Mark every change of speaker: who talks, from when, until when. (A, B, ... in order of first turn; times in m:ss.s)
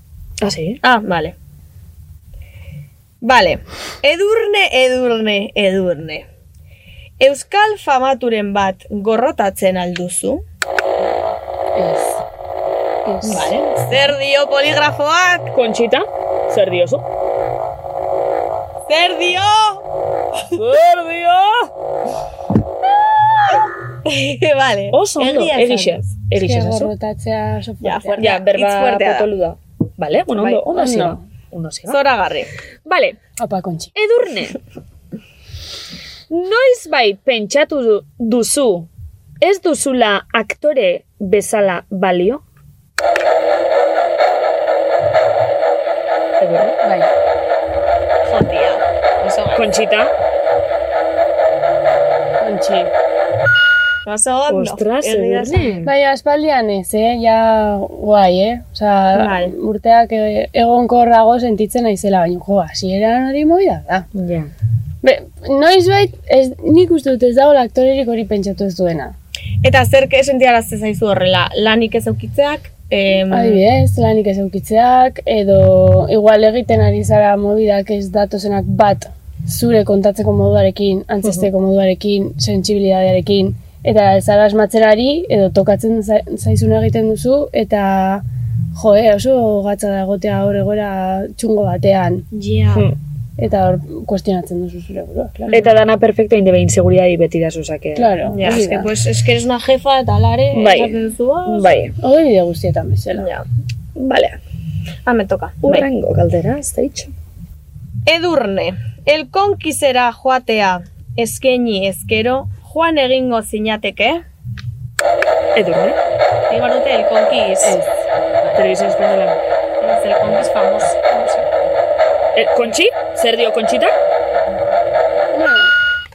0:00.4-0:00.8 A
0:00.8-0:01.4 B
0:03.2-0:06.3 B
0:07.2-0:10.4 B
0:11.8-0:12.2 C
0:13.1-0:13.5 C
0:13.2-0:15.5 B
0:15.5-0:17.0 A
0:18.9-0:19.8 B
0:20.5-0:21.7 A
0:23.5-0:26.1 B
0:24.9-0:26.9 A
0:26.3-0:28.3 C
0:27.8-0:29.3 B
0:28.2-0:32.0 A
0:30.3-0:30.6 B
0:30.7-0:31.2 C
0:31.9-0:32.5 B
0:32.9-0:33.2 A
0:33.4-0:33.9 C
0:34.0-0:34.6 A
0:36.3-0:38.9 A
0:39.4-0:42.4 A
0:46.4-0:46.8 A
0:46.8-0:47.1 C
0:48.2-0:49.7 B
0:49.5-0:50.1 A
0:52.4-0:52.9 C
0:54.0-0:55.9 B
0:54.5-0:55.9 A
0:55.8-1:04.1 C
0:59.1-0:59.5 B
1:04.2-1:04.5 A
1:05.0-1:09.2 C
1:09.6-1:13.6 B
1:13.3-1:28.2 C
1:28.8-1:32.2 C
1:32.3-1:32.9 B
1:33.4-1:35.6 C
1:35.5-1:38.6 A
1:38.0-1:38.9 C
1:38.4-1:41.8 B
1:40.5-1:41.9 A
1:42.0-1:43.3 C
1:43.2-1:43.4 B
1:44.0-1:44.4 A
1:45.1-1:45.9 B
1:45.6-1:47.1 A
1:48.1-1:54.2 B
1:55.6-1:56.0 A
1:56.5-1:57.8 B
1:57.6-1:57.9 C
1:58.6-1:59.4 A
1:59.8-2:01.5 B
2:02.4-2:03.9 A
2:05.3-2:05.7 C